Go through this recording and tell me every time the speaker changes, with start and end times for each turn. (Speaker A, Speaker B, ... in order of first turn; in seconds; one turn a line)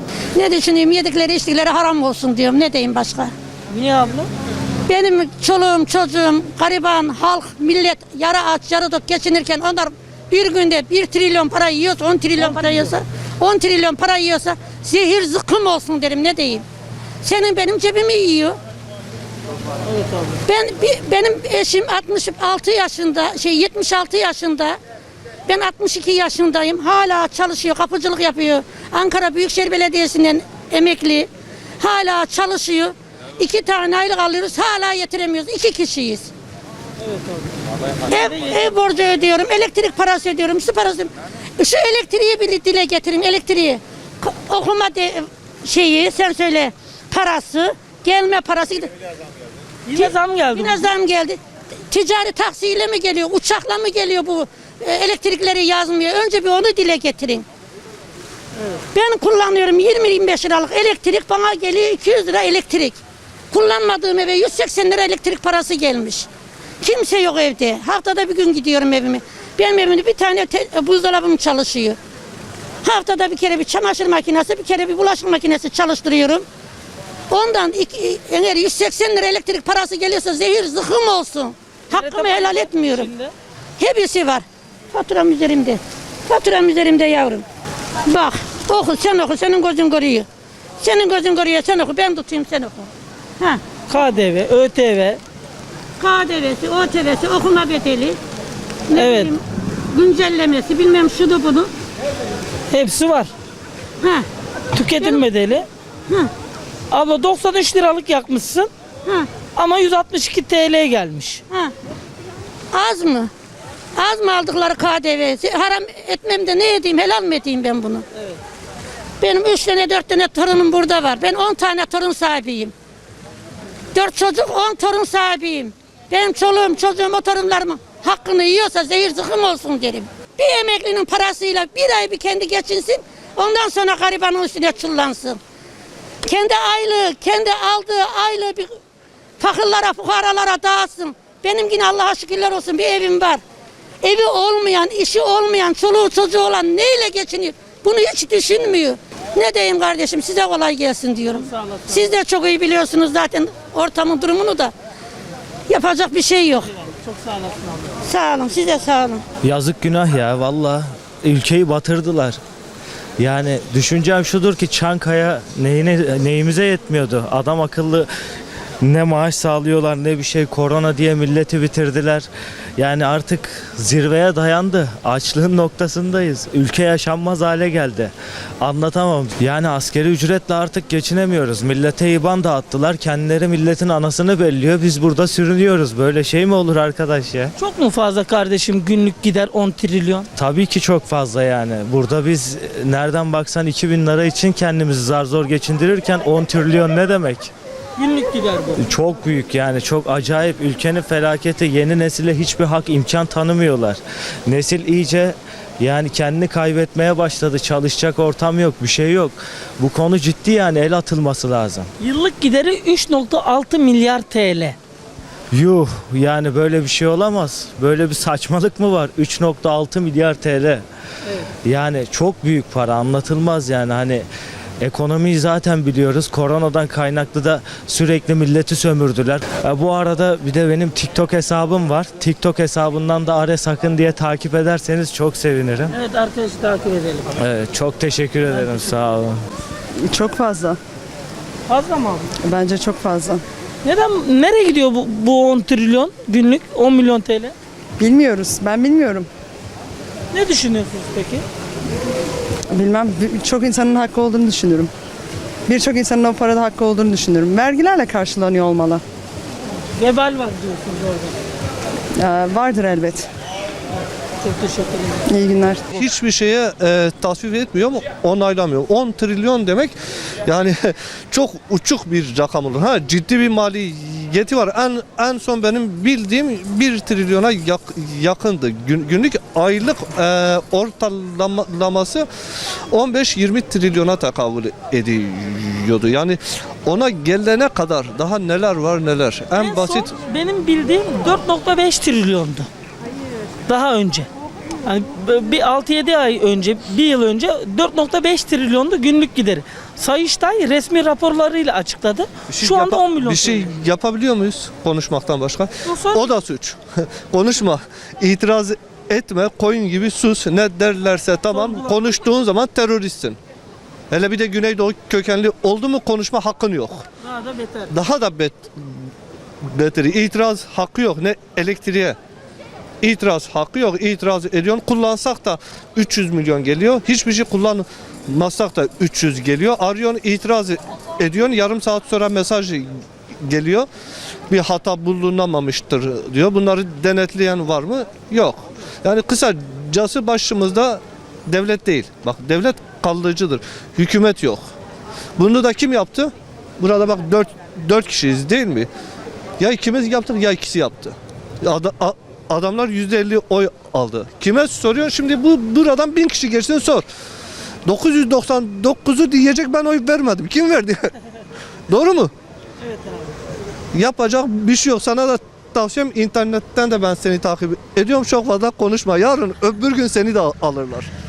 Speaker A: 0.3-3.3
Speaker B: 3.7-4.3
Speaker A: 4.9-16.6
Speaker B: 12.4-12.8
Speaker A: 17.2-18.6
Speaker B: 19.9-20.4
Speaker A: 20.5-24.8
Speaker A: 25.5-36.3
Speaker B: 37.0-37.5
Speaker A: 38.1-48.9
Speaker B: 38.1-38.7
Speaker B: 49.9-50.9
Speaker A: 50.0-57.5
Speaker A: 58.9-63.0
Speaker A: 63.5-66.3
Speaker A: 66.8-72.0
Speaker A: 72.8-76.5
Speaker A: 77.3-83.1
Speaker B: 81.9-83.3
Speaker A: 83.8-87.5
Speaker A: 88.1-90.3
Speaker A: 90.8-93.6
Speaker B: 93.9-95.2
Speaker A: 96.0-98.2
Speaker A: 98.9-101.7
Speaker B: 98.9-99.3
Speaker B: 102.7-103.3
Speaker A: 104.0-104.3
Speaker B: 104.7-105.7
Speaker B: 106.9-108.7
Speaker B: 109.5-111.4
Speaker A: 112.7-113.3
Speaker A: 114.0-118.1
Speaker A: 119.2-122.7
Speaker A: 123.9-135.4
Speaker A: 136.2-138.7
Speaker A: 139.4-143.4
Speaker A: 144.0-154.7
Speaker B: 151.3-152.0
Speaker A: 155.7-156.7
Speaker B: 156.8-158.0
Speaker A: 158.0-159.2
Speaker C: 159.4-162.4
Speaker C: 163.2-168.1
Speaker C: 168.8-187.5
Speaker B: 187.6-190.3
Speaker C: 190.4-197.5
Speaker B: 198.0-198.8
Speaker C: 198.8-211.9
Speaker B: 212.0-214.8
Speaker C: 215.5-220.9
Speaker C: 221.7-224.3
Speaker C: 224.8-235.9
Speaker B: 235.9-237.3
Speaker C: 237.4-239.4
Speaker B: 238.5-239.1
Speaker D: 240.0-240.8
Speaker B: 241.7-242.3
Speaker D: 242.4-243.4
Speaker B: 243.8-247.5
Speaker D: 248.0-249.3
Speaker B: 250.3-251.4
Speaker D: 252.7-254.9
Speaker D: 255.7-259.0
Speaker B: 260.0-261.4
Speaker D: 262.2-263.3
Speaker B: 264.4-265.3
Speaker D: 265.3-265.8
Speaker E: 266.0-282.3
Speaker E: 282.9-290.1
Speaker B: 289.6-292.7
Speaker B: 293.7-294.3
Speaker B: 294.8-303.9
Speaker E: 302.5-313.4
Speaker B: 305.9-306.3
Speaker B: 311.5-312.1
Speaker E: 314.1-317.1
Speaker B: 317.2-317.9
Speaker E: 317.9-318.9
Speaker E: 319.6-322.2
Speaker E: 323.0-332.9
Speaker E: 333.4-333.9
Speaker E: 334.5-344.6
Speaker E: 345.4-348.9
Speaker E: 349.6-357.1
Speaker E: 357.9-361.1
Speaker E: 361.9-362.3
Speaker B: 362.8-363.4
Speaker E: 363.9-371.1